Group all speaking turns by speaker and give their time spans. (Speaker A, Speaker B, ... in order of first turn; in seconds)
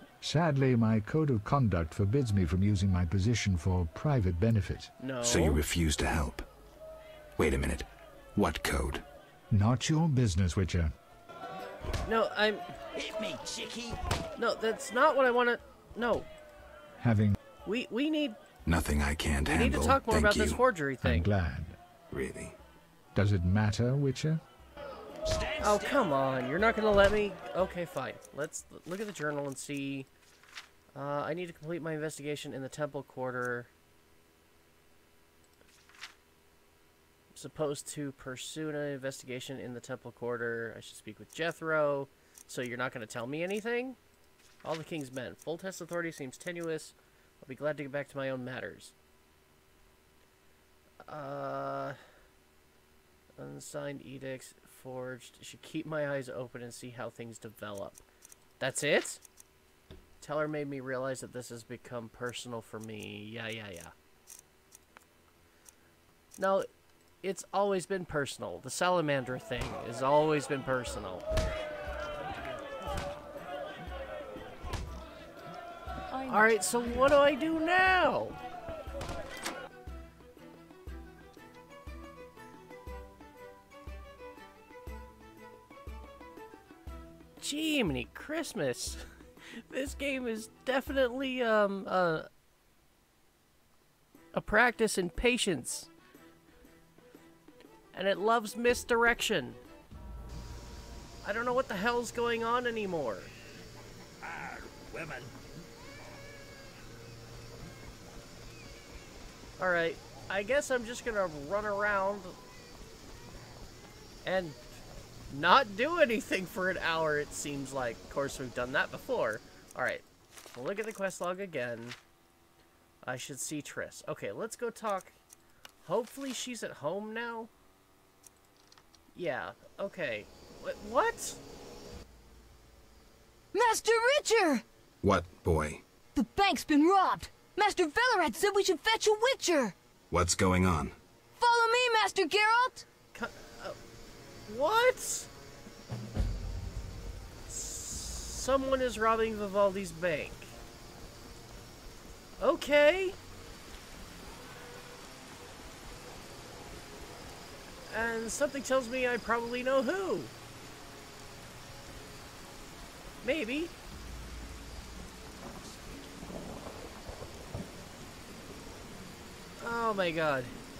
Speaker A: 0.2-4.9, 9.5-10.9, 17.0-17.4, 21.0-21.7, 23.1-24.4
Speaker B: 5.0-5.6, 12.0-12.7, 14.4-16.3, 17.6-18.4, 19.4-21.3, 25.6-30.1, 30.9-33.7, 37.3-44.0, 44.6-48.9, 51.1-52.0, 53.4-58.0, 58.6-59.2, 60.2-63.9, 66.4-66.7, 67.2-71.2, 76.2-78.4, 87.4-89.0, 89.7-92.3, 94.3-95.9, 97.9-99.6, 101.2-103.3, 109.6-112.3, 114.2-114.6, 115.3-122.0, 123.0-125.1, 125.8-127.5, 129.1-131.4, 143.1-143.8, 144.5-145.3, 147.5-150.5, 152.4-153.2, 157.9-160.3, 163.2-163.7, 169.6-170.5
Speaker C: 5.2-6.4, 7.4-9.0, 18.6-20.6, 22.1-22.6, 135.0-135.8, 140.1-140.9
Speaker D: 25.2-26.1, 104.3-105.3
Speaker E: 133.5-134.6, 136.1-139.7, 141.4-142.8